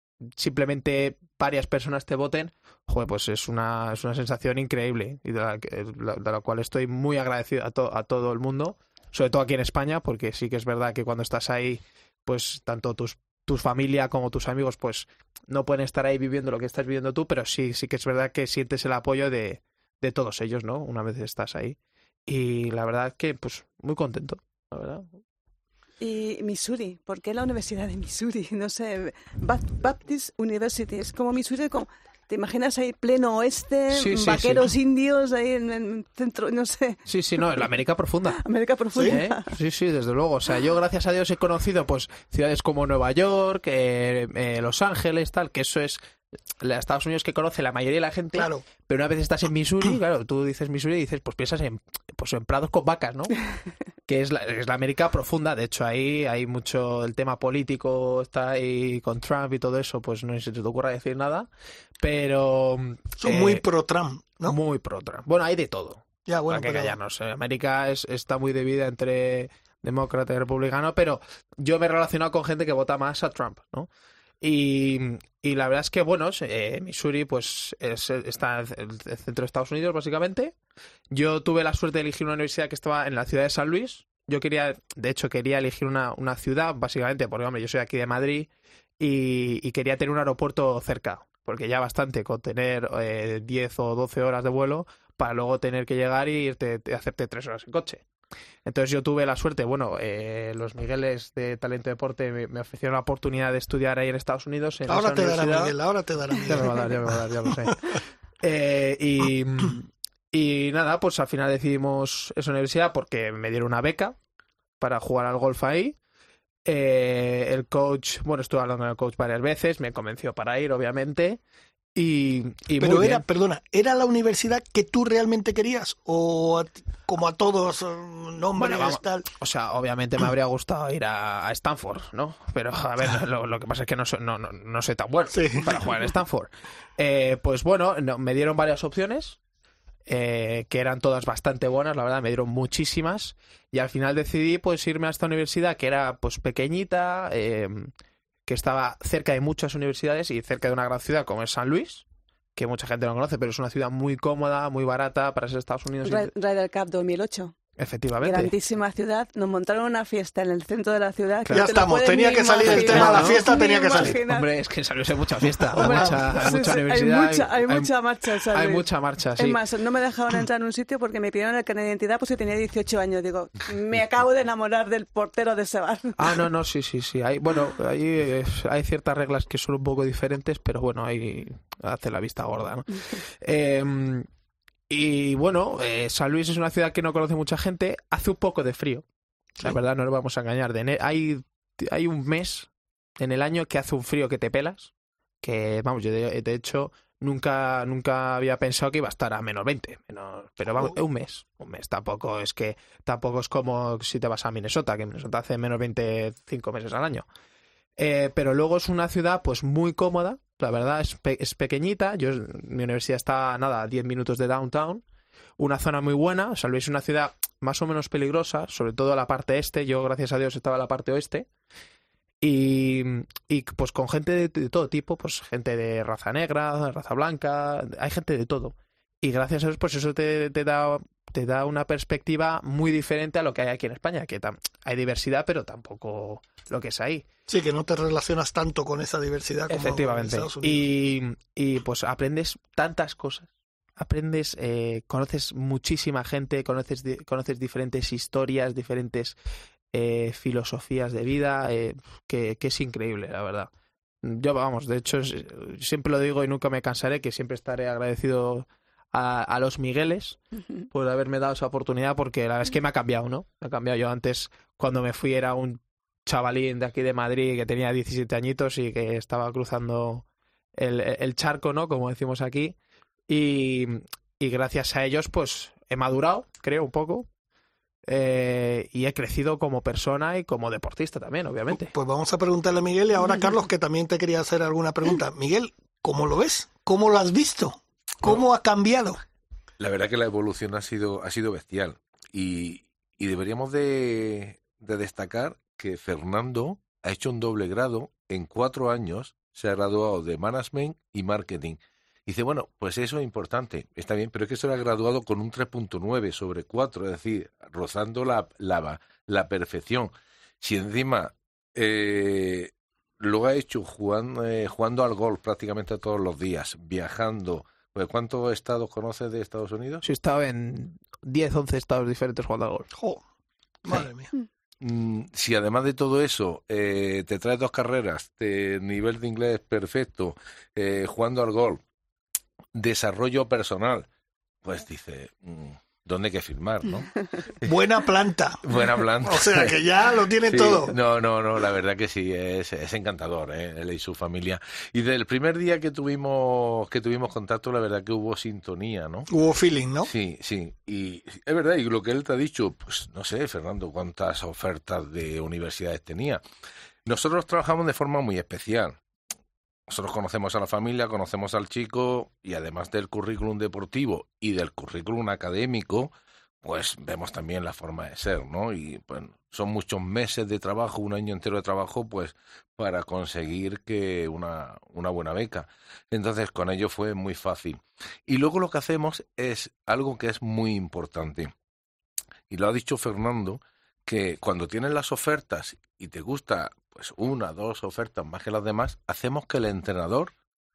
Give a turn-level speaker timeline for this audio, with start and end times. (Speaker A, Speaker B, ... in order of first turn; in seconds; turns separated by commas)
Speaker A: 0.3-25.2, Speaker B: 26.0-37.0, Speaker A: 33.9-34.7, Speaker A: 37.0-38.4, Speaker B: 38.4-39.5, Speaker A: 39.0-46.0, Speaker A: 46.6-53.4, Speaker C: 48.3-48.6, Speaker A: 54.0-63.6, Speaker C: 63.2-64.5, Speaker A: 64.5-73.9, Speaker C: 66.3-67.0, Speaker A: 74.4-80.5, Speaker A: 81.1-88.5, Speaker A: 89.0-98.0, Speaker A: 98.6-105.7, Speaker C: 104.9-106.9, Speaker A: 106.4-114.2, Speaker A: 114.8-116.0, Speaker A: 116.6-121.4, Speaker A: 121.9-123.2, Speaker C: 122.8-129.2, Speaker A: 128.6-139.4, Speaker C: 135.3-135.7, Speaker A: 140.1-147.9, Speaker A: 148.4-152.0, Speaker A: 152.6-156.3, Speaker B: 156.0-157.5, Speaker A: 157.8-158.5, Speaker B: 158.2-164.5, Speaker A: 161.4-161.8, Speaker C: 161.5-164.2, Speaker A: 162.6-167.9, Speaker C: 165.7-166.7, Speaker B: 165.8-176.4, Speaker A: 168.5-169.6, Speaker A: 176.2-184.3, Speaker A: 184.9-189.0, Speaker A: 189.6-194.9, Speaker A: 195.4-207.2, Speaker A: 208.0-215.0, Speaker A: 215.6-221.5, Speaker A: 222.4-237.2, Speaker C: 237.5-240.8, Speaker A: 239.7-249.3, Speaker A: 249.9-253.7, Speaker A: 254.2-260.4, Speaker A: 260.9-272.7, Speaker A: 273.3-277.3, Speaker A: 278.1-281.9, Speaker C: 281.7-289.2, Speaker D: 289.8-320.0, Speaker A: 320.0-322.9, Speaker C: 322.9-323.2, Speaker C: 323.8-324.3, Speaker D: 324.8-331.8, Speaker D: 332.7-334.1, Speaker D: 334.6-337.7, Speaker C: 337.6-338.6, Speaker D: 338.6-339.8, Speaker C: 339.2-340.9, Speaker D: 340.4-349.3, Speaker C: 349.3-350.1, Speaker D: 350.0-356.4, Speaker D: 357.1-359.0, Speaker D: 359.9-366.1, Speaker D: 366.6-381.5, Speaker D: 382.5-390.3